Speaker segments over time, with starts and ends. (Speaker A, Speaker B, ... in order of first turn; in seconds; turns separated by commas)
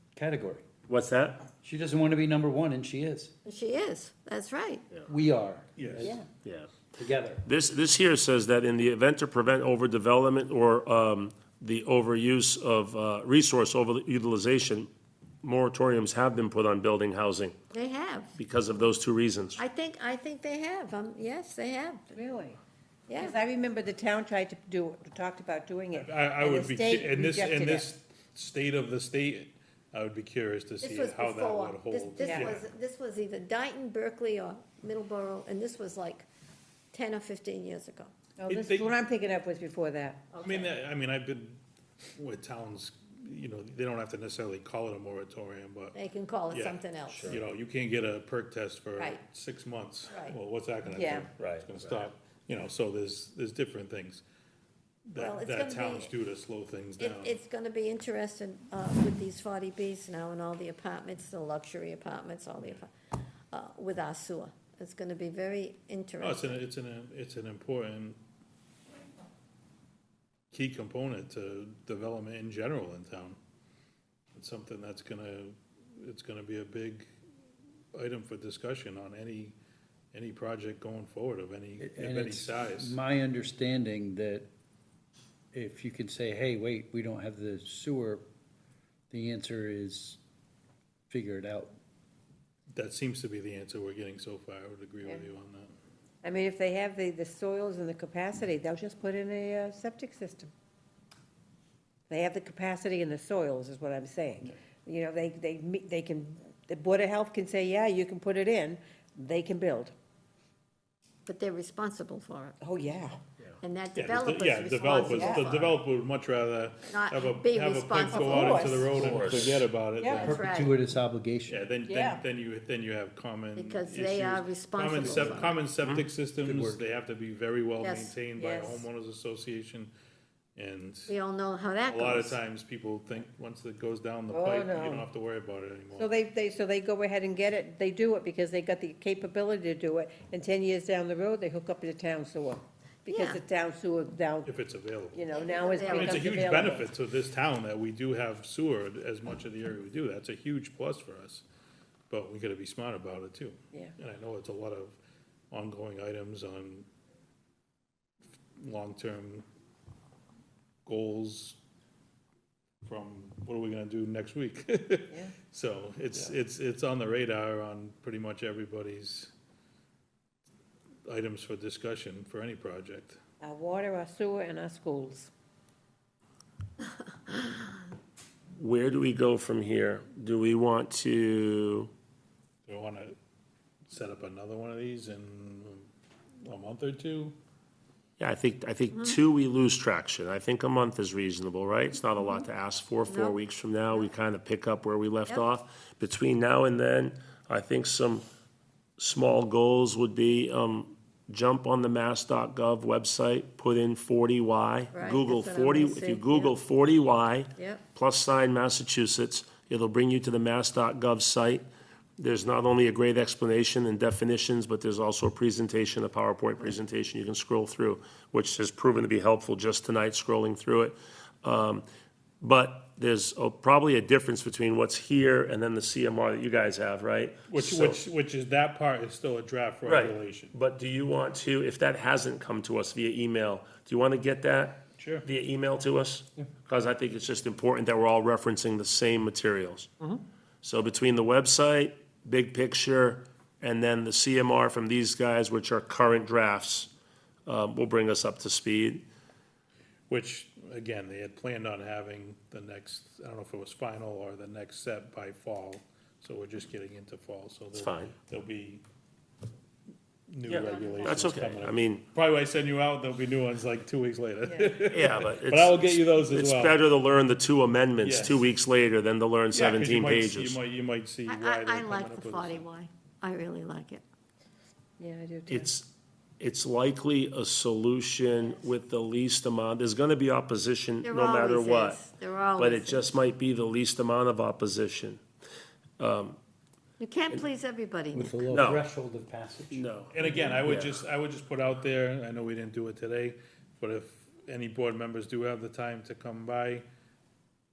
Speaker A: 0.1-0.7, Speaker B: 0.9-1.4, Speaker A: 1.6-3.3, Speaker C: 3.5-4.9, Speaker A: 5.1-6.2, Speaker D: 5.8-6.2, Speaker B: 6.5-6.7, Speaker A: 6.9-7.5, Speaker B: 7.4-14.9, Speaker B: 15.4-17.6, Speaker C: 17.7-18.4, Speaker B: 18.4-19.6, Speaker C: 19.6-22.2, Speaker E: 22.1-22.6, Speaker C: 23.1-23.4, Speaker E: 23.1-27.9, Speaker D: 25.9-32.7, Speaker C: 30.8-36.3, Speaker E: 32.2-32.6, Speaker C: 36.9-38.1, Speaker E: 38.4-40.3, Speaker D: 38.5-39.0, Speaker C: 40.3-40.7, Speaker D: 40.4-41.6, Speaker D: 42.2-46.0, Speaker C: 45.9-47.4, Speaker D: 46.5-54.2, Speaker B: 47.1-47.4, Speaker C: 49.0-49.2, Speaker C: 50.1-50.4, Speaker E: 50.9-51.3, Speaker B: 51.4-52.1, Speaker D: 55.1-57.4, Speaker C: 55.2-56.1, Speaker C: 57.0-62.9, Speaker C: 63.5-66.6, Speaker D: 66.2-68.2, Speaker D: 70.5-73.4, Speaker D: 74.3-77.1, Speaker D: 77.9-79.6, Speaker D: 80.1-83.0, Speaker A: 81.8-84.5, Speaker A: 85.5-88.2, Speaker A: 89.1-90.2, Speaker A: 91.1-91.7, Speaker D: 92.7-95.7, Speaker E: 96.2-100.5, Speaker E: 102.1-109.9, Speaker C: 111.3-112.6, Speaker E: 112.6-113.2, Speaker C: 113.6-115.7, Speaker D: 114.0-120.4, Speaker E: 115.0-115.5, Speaker C: 116.9-118.8, Speaker E: 118.1-119.1, Speaker B: 118.9-119.7, Speaker A: 119.0-119.6, Speaker E: 120.0-120.3, Speaker C: 120.1-120.8, Speaker A: 120.2-121.6, Speaker D: 121.5-129.9, Speaker E: 121.9-122.2, Speaker C: 123.5-125.6, Speaker A: 125.0-125.5, Speaker A: 126.4-126.8, Speaker C: 127.8-128.2, Speaker E: 128.3-128.9, Speaker D: 130.6-131.2, Speaker C: 131.1-132.4, Speaker D: 131.8-136.2, Speaker E: 134.3-135.1, Speaker E: 135.9-144.6, Speaker C: 143.1-143.4, Speaker D: 144.4-145.3, Speaker E: 145.1-146.9, Speaker C: 145.3-146.5, Speaker D: 145.9-151.4, Speaker D: 152.1-155.0, Speaker D: 155.5-156.9, Speaker D: 158.6-159.5, Speaker D: 160.8-161.6, Speaker D: 162.8-169.3, Speaker E: 165.1-165.4, Speaker D: 171.1-173.2, Speaker E: 173.4-175.3, Speaker B: 178.6-181.9, Speaker D: 182.7-183.2, Speaker D: 183.9-185.9, Speaker D: 186.4-187.4, Speaker B: 188.2-198.2, Speaker C: 193.1-193.4, Speaker B: 199.0-211.7, Speaker C: 204.9-206.5, Speaker C: 207.6-207.8, Speaker B: 212.2-221.8, Speaker B: 222.4-228.1, Speaker D: 227.5-230.5, Speaker B: 229.8-239.9, Speaker D: 235.0-235.2, Speaker B: 240.6-246.9, Speaker B: 247.5-249.0, Speaker D: 250.1-258.8, Speaker B: 257.8-258.1, Speaker D: 260.3-266.8, Speaker B: 260.5-262.1, Speaker E: 260.6-261.3, Speaker E: 264.4-264.9, Speaker B: 264.9-270.6, Speaker D: 268.0-268.4, Speaker D: 269.5-272.7, Speaker C: 271.3-274.0, Speaker E: 275.0-275.7, Speaker B: 275.5-275.9, Speaker B: 276.4-282.0, Speaker C: 281.0-283.1, Speaker B: 282.6-285.2, Speaker B: 286.0-286.4, Speaker C: 287.0-288.5, Speaker A: 288.1-290.7, Speaker B: 288.5-288.9, Speaker B: 289.7-291.0, Speaker D: 290.1-296.9